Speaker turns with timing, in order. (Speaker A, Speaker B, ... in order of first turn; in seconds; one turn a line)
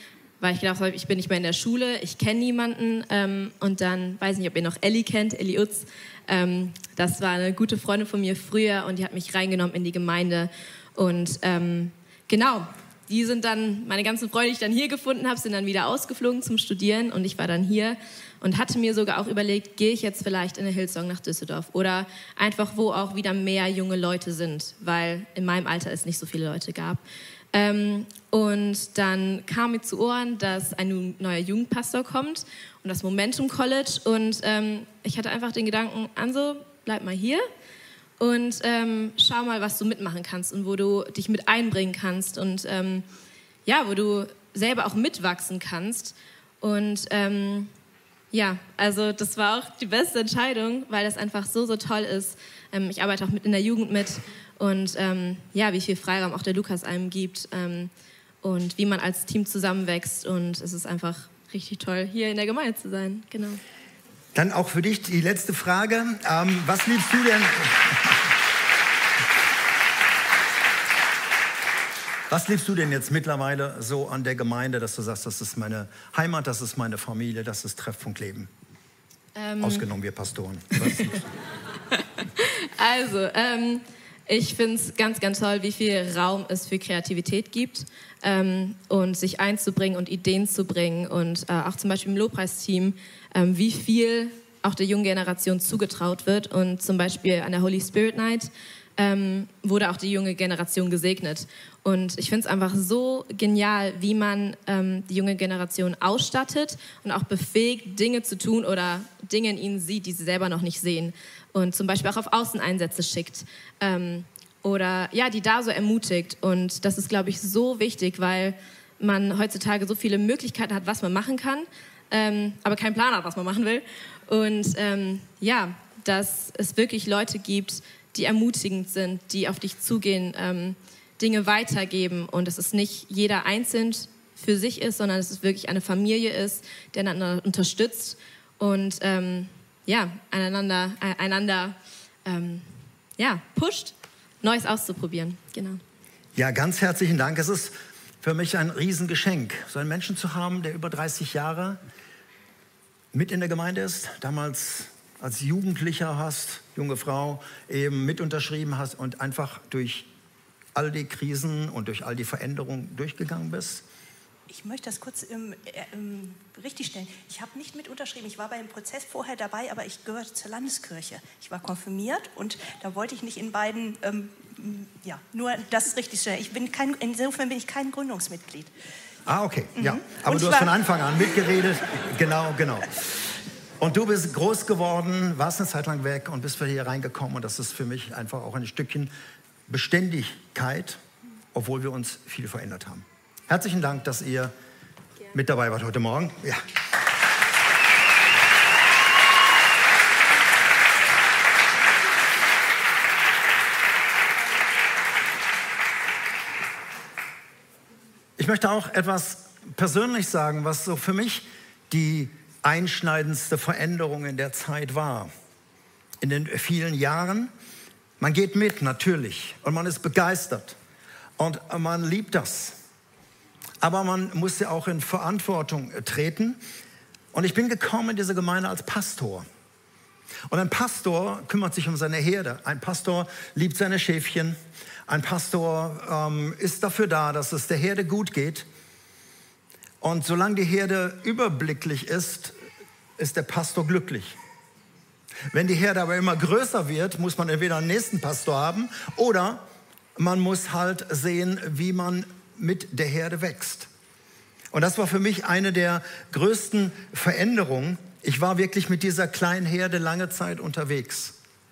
Speaker A: 0.4-27.0
Speaker A: 27.5-37.5
Speaker A: 38.2-43.0
Speaker A: 43.7-47.7
Speaker A: 48.3-57.9
Speaker A: 58.4-63.6
Speaker B: 64.3-68.1
Speaker B: 72.3-78.5
Speaker A: 79.3-79.9
Speaker B: 79.6-81.2
Speaker A: 82.4-142.7
Speaker A: 143.2-145.8
Speaker B: 146.4-151.8
Speaker B: 153.1-160.1
Speaker B: 160.8-163.8
Speaker C: 164.5-178.7
Speaker B: 179.3-183.2
Speaker C: 179.8-180.8
Speaker B: 183.8-189.1
Speaker B: 189.7-191.0
Speaker B: 191.5-194.5
Speaker B: 195.3-196.6
Speaker B: 208.4-215.3
Speaker B: 216.2-217.5
Speaker B: 218.2-220.8
Speaker B: 221.4-222.8
Speaker B: 223.8-226.6
Speaker B: 227.3-229.5
Speaker B: 230.5-238.7
Speaker B: 240.0-242.5
Speaker B: 243.2-244.4
Speaker B: 245.5-249.6
Speaker B: 250.2-253.9
Speaker B: 254.7-261.4